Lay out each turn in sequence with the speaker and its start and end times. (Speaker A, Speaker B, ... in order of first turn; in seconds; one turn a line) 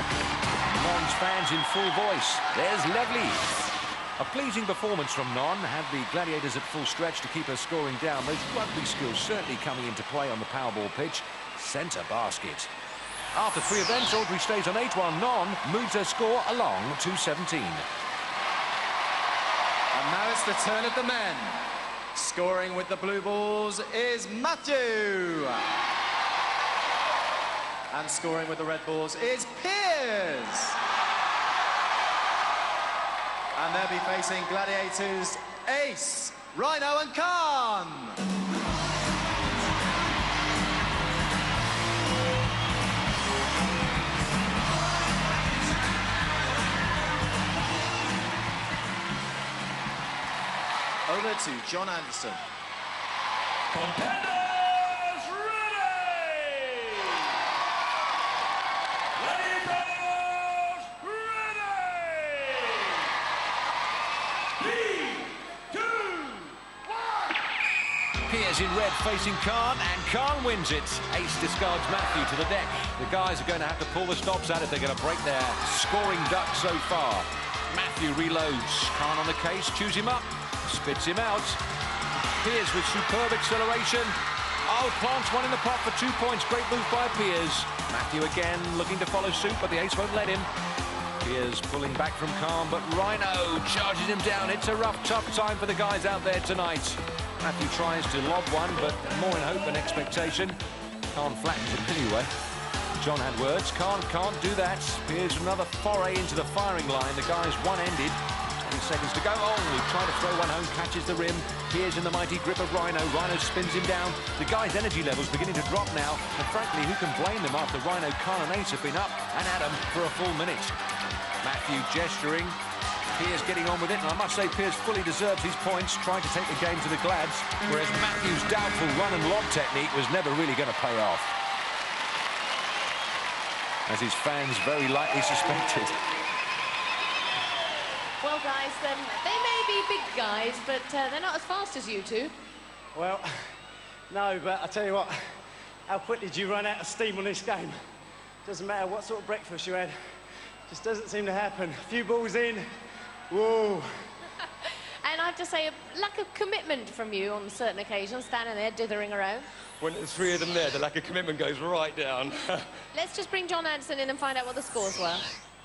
Speaker A: 0.7-3.5
Speaker A: 4.2-12.7
Speaker A: 13.3-17.9
Speaker B: 19.9-21.6
Speaker B: 22.1-25.6
Speaker B: 27.9-30.8
Speaker B: 33.6-38.2
Speaker B: 51.1-52.4
Speaker C: 53.7-57.3
Speaker C: 59.2-63.1
Speaker C: 64.6-67.3
Speaker A: 68.2-81.6
Speaker A: 82.4-84.2
Speaker A: 84.7-90.5
Speaker A: 91.2-100.6
Speaker C: 98.9-100.2
Speaker A: 101.1-102.3
Speaker A: 103.0-120.8
Speaker A: 121.4-122.6
Speaker A: 123.2-131.3
Speaker A: 133.9-136.0
Speaker D: 138.2-142.3
Speaker E: 142.9-143.3
Speaker E: 144.1-145.1
Speaker E: 145.9-147.8
Speaker E: 148.4-149.9
Speaker E: 150.7-152.7
Speaker E: 153.3-153.9
Speaker D: 155.0-159.5
Speaker F: 159.8-162.7
Speaker D: 162.9-165.2